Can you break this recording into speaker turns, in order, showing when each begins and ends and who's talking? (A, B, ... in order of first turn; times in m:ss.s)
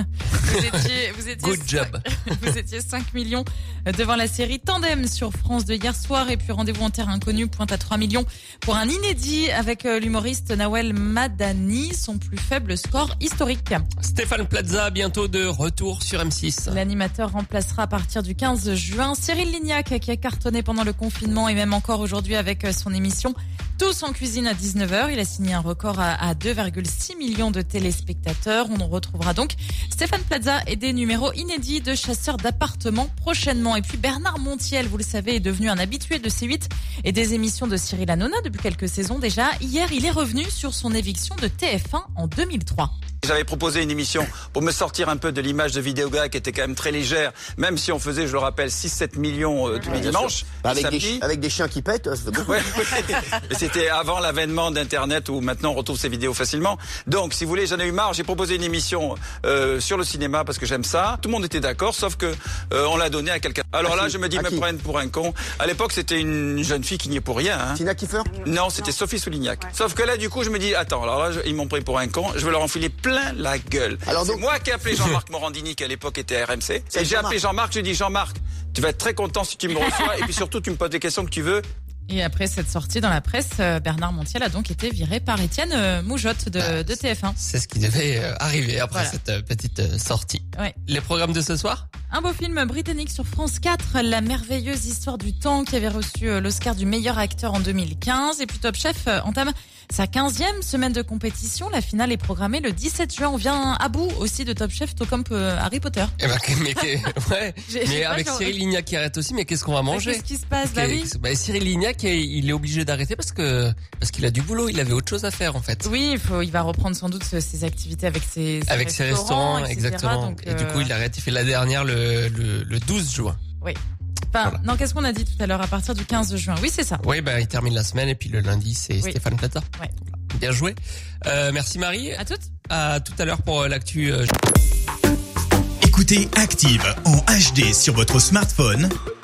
0:00.3-0:13.9 A
0:00.5-0:00.8 B
0:01.4-0:02.4 B
0:14.0-0:16.8 B
0:16.7-0:42.9 A
0:43.2-0:51.2 C
0:49.8-0:53.0 D
0:52.5-1:07.8 C
1:03.8-1:04.6 D
1:07.7-1:08.4 D
1:08.4-1:21.7 C
1:14.1-1:14.5 D
1:16.9-1:17.4 D
1:22.1-1:27.4 A
1:26.6-1:31.8 B
1:28.9-1:29.2 A
1:32.1-1:46.1 A
1:46.2-1:55.9 B
1:47.7-1:48.6 A
1:49.9-1:51.1 A
1:55.8-2:00.9 A
1:58.7-2:03.4 B
2:04.3-2:07.0 A
2:07.0-2:14.3 B
2:12.2-2:12.5 A
2:15.8-2:18.9 E